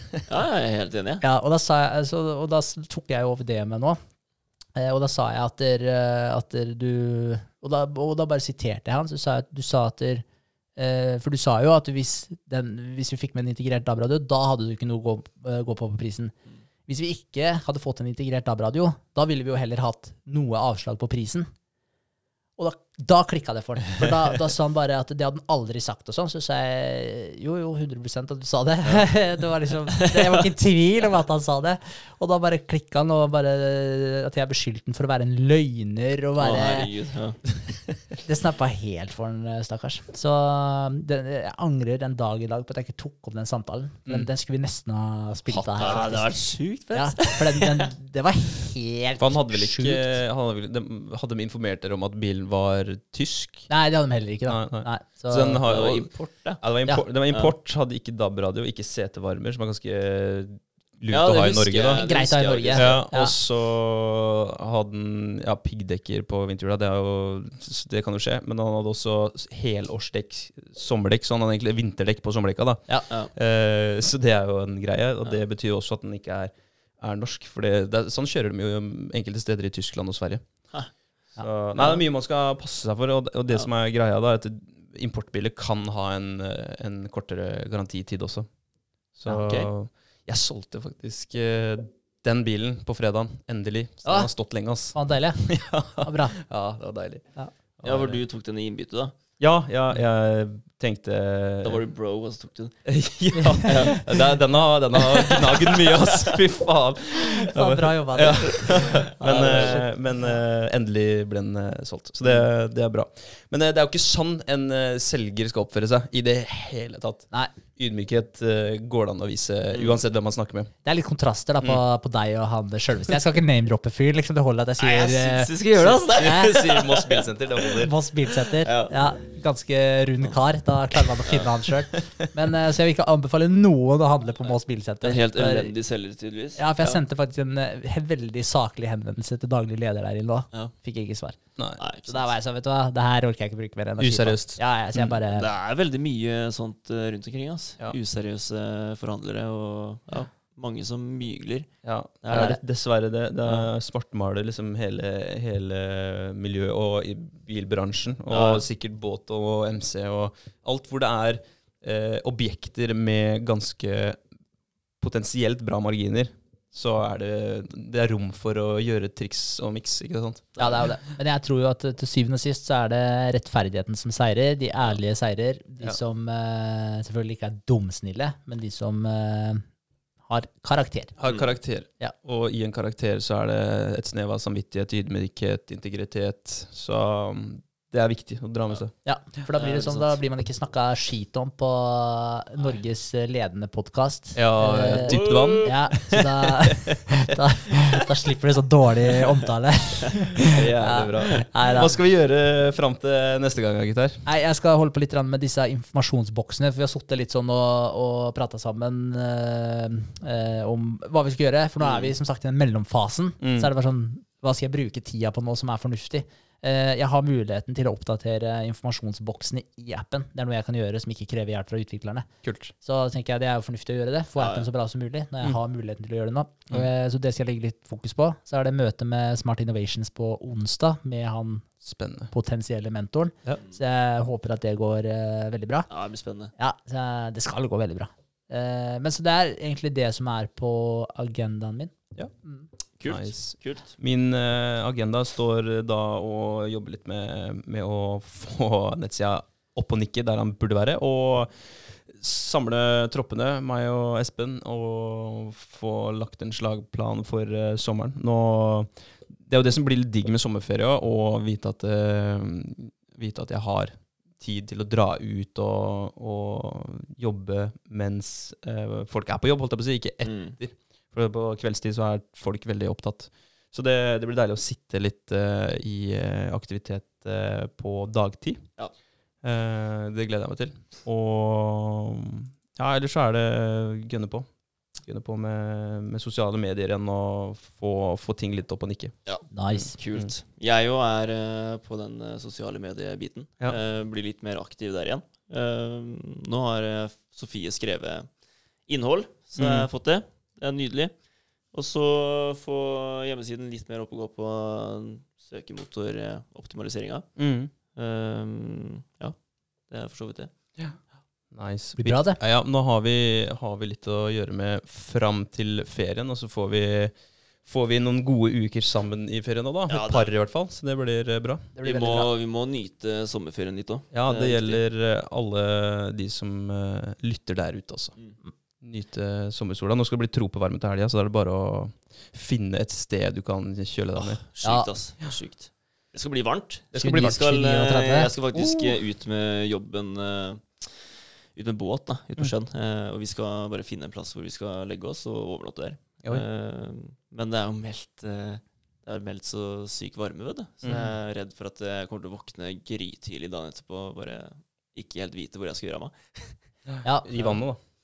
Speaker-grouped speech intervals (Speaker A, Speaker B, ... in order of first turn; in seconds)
Speaker A: 0.3-1.2, 29.9-30.4, 36.4-37.4, 45.8-47.9, 55.6-56.6, 61.1-63.0, 89.3-89.7, 97.8-99.2, 101.6-102.8, 103.6-104.0, 105.0-106.4, 109.2-109.8, 119.7-120.0, 124.8-127.3, 128.5-128.9, 131.2-131.6, 134.4-137.0, 141.8-142.3, 145.3-151.7, 152.2-152.6, 158.3-158.6, 189.6-190.0, 195.1-195.8, 211.8-212.1, 224.4-224.7, 235.9-236.5, 243.0-243.9, 270.2-270.6, 289.2-298.3, 298.9-301.1, 301.7-307.2, 307.9-309.4, 309.9-310.5, 319.9-320.3, 321.8-324.8, 334.1-356.6
Speaker B: 1.2-4.0, 4.8-10.2, 10.8-16.3, 16.9-21.5, 22.6-36.9, 38.1-46.4, 46.9-50.2, 53.7-55.6, 61.9-63.4, 94.0-94.3, 94.9-96.3, 103.3-104.0, 107.2-110.2, 120.8-126.6, 127.8-135.7, 136.6-141.4, 142.1-145.5, 152.3-152.6, 170.6-179.6, 180.2-181.1, 189.0-201.9, 204.2-222.3, 222.8-231.8, 232.3-235.9, 236.6-242.7, 289.5-289.9, 312.0-312.4, 321.8-322.3, 334.6-334.9, 336.9-338.3, 350.9-351.1, 357.0-357.3
Speaker C: 45.5-46.2, 49.2-53.7, 54.5-62.0, 62.7-80.5, 81.4-88.5, 89.1-98.2, 99.4-101.8, 102.8-120.7, 126.2-127.9, 144.0-145.1, 151.8-164.2, 165.0-170.6, 181.2-188.9, 194.3-197.3, 200.5-204.2, 213.4-213.7, 222.4-222.7, 231.8-232.3, 243.1-278.7, 279.4-284.5, 285.0-289.1, 289.7-290.3, 299.6-299.9, 307.4-307.7, 311.5-321.7, 324.1-328.1, 328.8-334.4, 336.9-337.4, 338.5-339.0, 350.8-351.1, 356.9-357.8